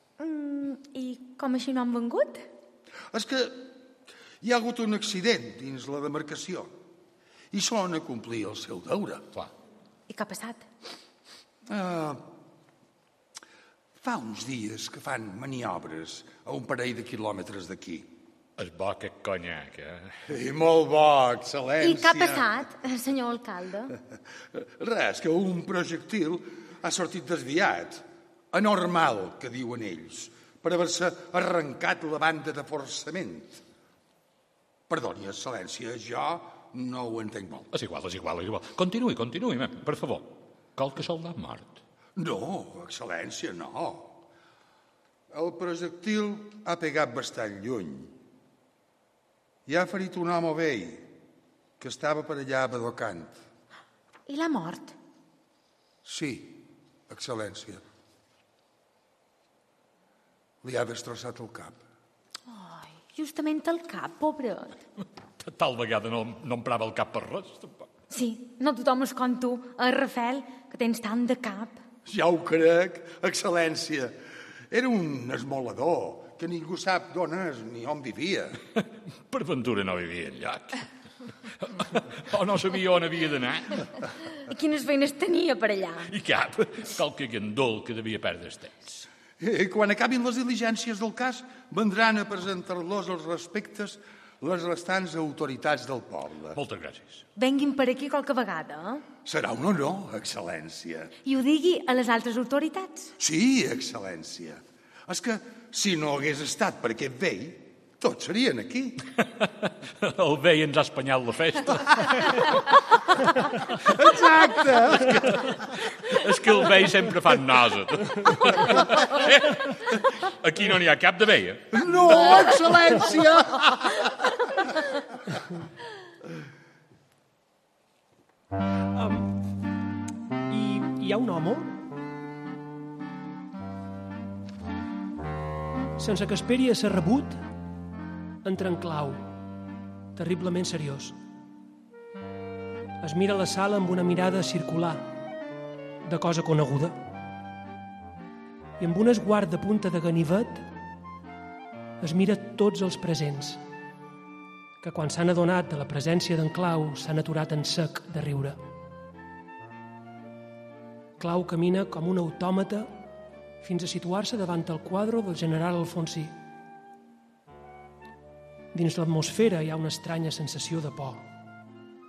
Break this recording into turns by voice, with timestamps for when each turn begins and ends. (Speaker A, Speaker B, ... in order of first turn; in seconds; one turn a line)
Speaker A: 0.2-2.5
Speaker B: 3.1-3.7
Speaker B: 4.4-6.7
Speaker B: 7.5-9.2
Speaker A: 10.1-10.7
Speaker B: 11.7-12.3
Speaker B: 14.0-18.1
Speaker C: 18.6-20.2
Speaker B: 20.3-22.5
Speaker A: 21.8-24.0
Speaker B: 24.5-33.6
Speaker B: 34.9-37.7
Speaker C: 37.7-41.8
Speaker B: 42.2-44.2
Speaker B: 45.3-48.1
Speaker B: 49.7-51.1
Speaker B: 51.8-53.4
Speaker A: 54.3-55.0
Speaker B: 56.0-57.8
Speaker B: 60.6-61.8
Speaker A: 62.5-64.8
Speaker C: 65.4-67.9
Speaker A: 68.1-71.8
Speaker B: 72.1-74.2
Speaker B: 74.7-78.6
Speaker C: 79.3-80.9
Speaker C: 81.6-83.9
Speaker A: 84.5-86.1
Speaker C: 86.1-89.0
Speaker B: 89.4-96.6
Speaker C: 96.5-97.2
Speaker A: 97.4-99.0
Speaker B: 99.2-101.1
Speaker A: 101.2-103.1
Speaker B: 103.2-109.0
Speaker C: 109.4-112.6
Speaker B: 113.9-115.5
Speaker C: 114.5-121.9
Speaker B: 121.7-124.3
Speaker D: 128.9-129.4
Speaker D: 130.5-131.8
Speaker D: 136.0-137.4
Speaker D: 138.4-139.3
Speaker D: 140.2-141.2
Speaker D: 143.0-145.1
Speaker D: 146.0-147.0
Speaker D: 148.8-150.7
Speaker D: 152.0-153.6
Speaker D: 154.8-158.6
Speaker D: 161.2-162.9
Speaker D: 163.6-166.3
Speaker D: 168.7-171.2